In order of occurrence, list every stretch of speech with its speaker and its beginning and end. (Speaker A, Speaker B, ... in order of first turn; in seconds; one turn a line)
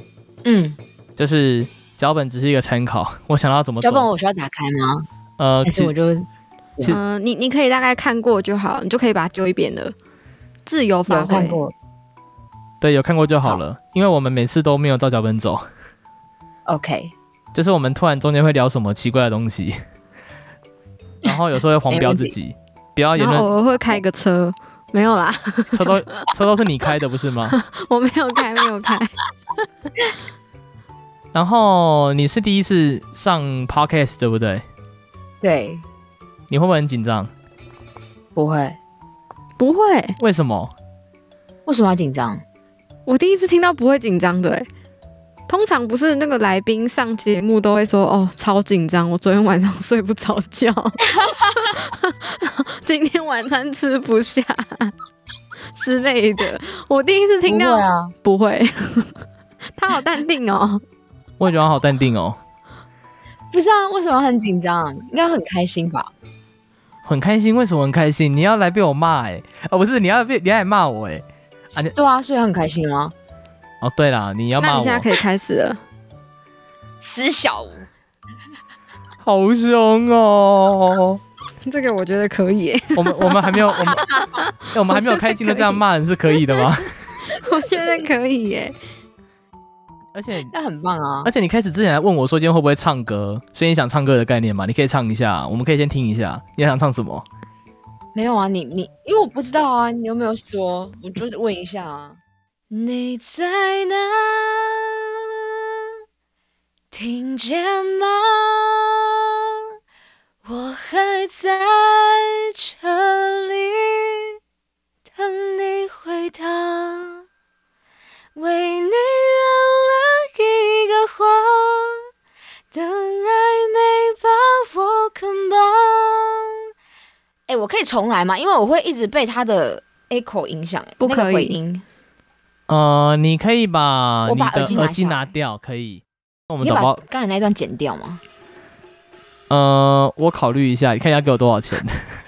Speaker A: 0.5-0.8
Speaker B: 1.2-4.1
Speaker A: 3.8-5.0
Speaker B: 5.4-5.9
Speaker A: 5.7-7.0
Speaker C: 6.8-9.9
Speaker C: 10.7-11.6
Speaker A: 11.1-11.7
Speaker B: 12.8-15.6
Speaker A: 16.7-17.1
Speaker B: 17.5-19.8
Speaker B: 21.2-23.5
Speaker A: 21.9-22.4
Speaker C: 23.2-26.0
Speaker B: 25.7-27.6
Speaker C: 27.5-29.2
Speaker B: 31.3-34.6
Speaker A: 35.4-35.8
Speaker B: 36.5-37.3
Speaker A: 38.3-38.8
Speaker C: 39.6-40.2
Speaker B: 40.2-40.7
Speaker A: 41.7-42.4
Speaker C: 43.1-44.7
Speaker C: 45.5-54.9
Speaker C: 55.8-59.2
Speaker A: 57.5-58.1
Speaker C: 59.8-60.8
Speaker B: 61.4-62.4
Speaker A: 63.5-66.1
Speaker B: 67.0-71.9
Speaker A: 71.9-73.1
Speaker B: 73.8-75.1
Speaker C: 74.6-75.8
Speaker A: 77.0-77.9
Speaker B: 79.2-81.2
Speaker C: 81.6-85.8
Speaker B: 82.9-84.1
Speaker B: 84.7-86.9
Speaker C: 86.3-86.7
Speaker C: 87.2-88.8
Speaker B: 90.1-90.5
Speaker A: 90.5-91.3
Speaker B: 91.2-97.2
Speaker A: 98.1-102.2
Speaker A: 102.7-105.0
Speaker A: 106.9-109.1
Speaker A: 110.4-114.3
Speaker A: 115.1-117.2
Speaker A: 118.3-122.0
Speaker A: 122.7-126.5
Speaker A: 127.5-131.8
Speaker C: 131.0-131.6
Speaker B: 132.7-137.0
Speaker A: 134.2-135.3
Speaker A: 136.6-138.2
Speaker B: 139.5-142.0